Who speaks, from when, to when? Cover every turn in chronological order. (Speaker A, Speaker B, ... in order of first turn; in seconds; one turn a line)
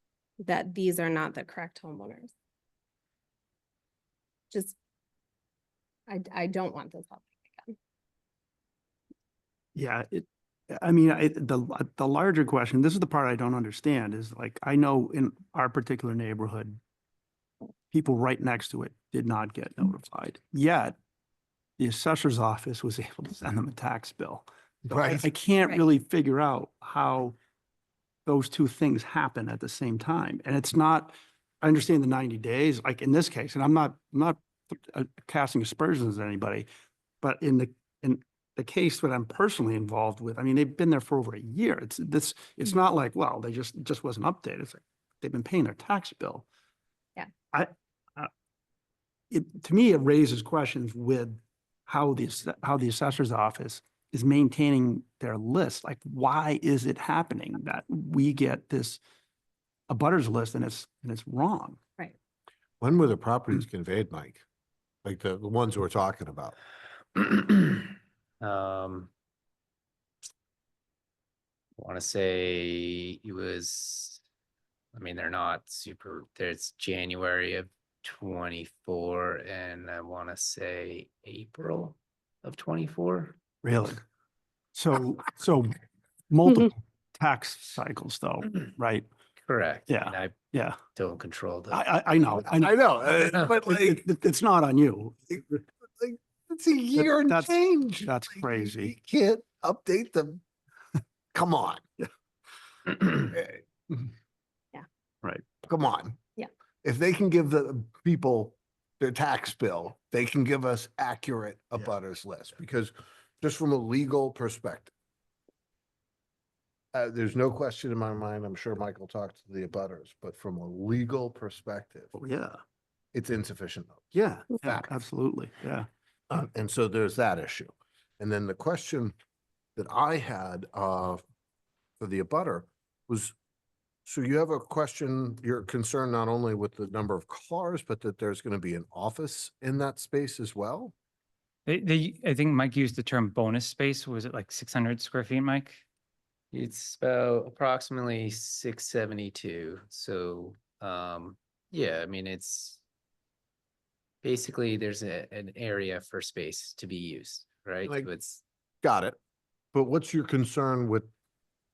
Speaker A: 0.4-2.3
Speaker A: 4.5-4.8
Speaker A: 6.1-7.7
Speaker B: 9.7-16.8
Speaker B: 17.9-20.9
Speaker B: 21.8-27.3
Speaker C: 24.9-25.2
Speaker B: 28.2-36.7
Speaker B: 37.2-46.4
Speaker B: 47.5-48.3
Speaker B: 49.3-59.0
Speaker B: 59.9-61.8
Speaker C: 62.8-64.4
Speaker C: 65.0-66.5
Speaker D: 67.2-67.9
Speaker D: 68.4-69.1
Speaker D: 71.8-74.2
Speaker D: 74.9-83.4
Speaker B: 83.6-84.0
Speaker B: 84.7-85.8
Speaker B: 86.3-89.1
Speaker D: 89.4-90.4
Speaker B: 89.9-90.8
Speaker D: 91.0-91.8
Speaker B: 91.7-92.7
Speaker C: 92.5-94.0
Speaker B: 93.6-95.4
Speaker C: 96.0-100.4
Speaker B: 97.0-98.9
Speaker C: 101.3-101.8
Speaker C: 103.0-103.6
Speaker C: 105.6-106.2
Speaker C: 106.8-114.9
Speaker C: 116.9-122.1
Speaker B: 122.1-122.6
Speaker C: 123.1-124.8
Speaker B: 124.1-125.9
Speaker C: 126.3-129.1
Speaker C: 129.8-131.2
Speaker C: 132.0-133.3
Speaker C: 134.1-140.9
Speaker E: 141.7-145.8
Speaker D: 146.5-152.8
Speaker D: 154.2-158.4
Speaker C: 158.8-159.2
Speaker C: 159.7-161.1